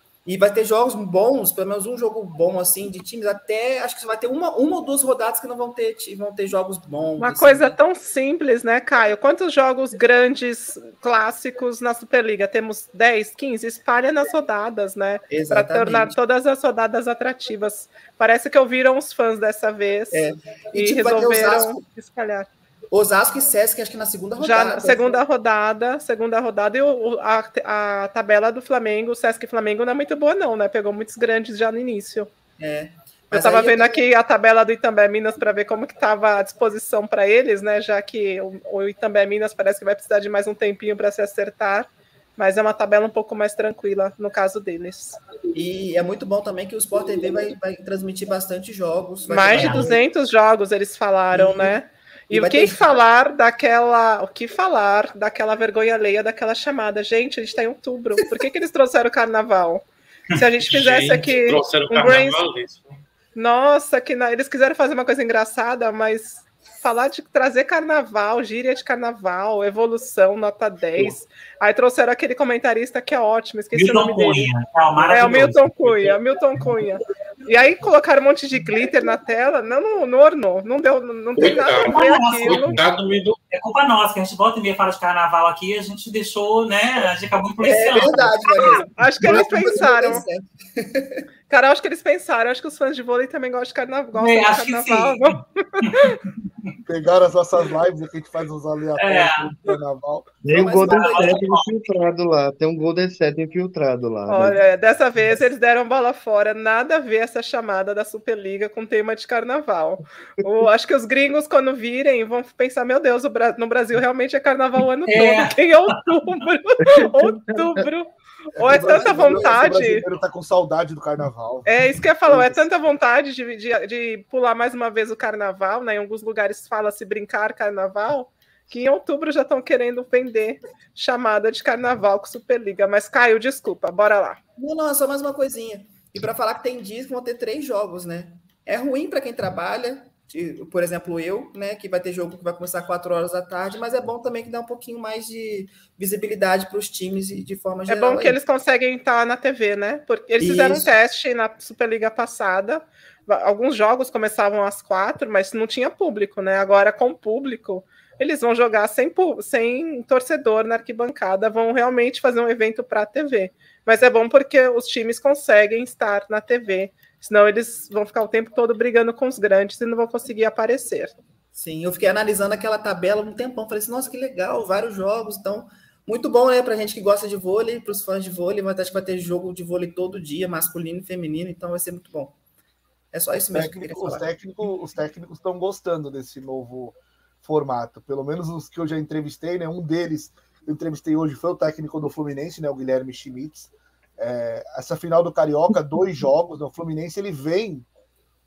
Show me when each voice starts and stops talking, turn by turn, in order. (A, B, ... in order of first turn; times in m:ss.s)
0:00.2-0:07.8 A
0:07.2-0:22.5 B
0:15.3-0:16.2 A
0:20.1-0:21.8 A
0:22.9-0:25.2 A
0:24.4-0:32.3 B
0:32.6-0:34.0 A
0:33.3-0:45.2 B
0:45.5-0:50.0 A
0:49.3-1:02.4 B
0:49.5-0:49.9 C
0:51.3-0:51.8 A
0:52.3-0:53.0 A
1:00.6-1:03.0 D
1:03.4-1:14.5 B
1:13.7-1:16.2 C
1:15.1-1:22.8 B
1:21.4-1:23.4 D
1:21.4-1:22.9 C
1:23.5-1:28.7 C
1:27.6-1:31.2 A
1:28.6-1:30.2 B
1:31.5-1:36.2 B
1:34.2-1:35.3 C
1:36.9-1:40.4 E
1:39.0-1:39.6 C
1:40.4-1:44.6 F
1:40.5-1:41.5 A
1:40.9-1:41.8 C
1:44.3-2:00.0 B
1:55.1-1:55.6 C
1:56.8-1:57.9 F
1:58.6-2:01.7 E
1:58.8-1:59.6 A
2:01.7-2:14.4 B
2:02.3-2:02.6 E
2:14.6-2:28.4 A
2:27.9-2:51.1 B
2:30.4-2:30.9 A
2:51.5-3:02.4 A
3:03.1-3:04.3 A
3:03.5-3:17.9 E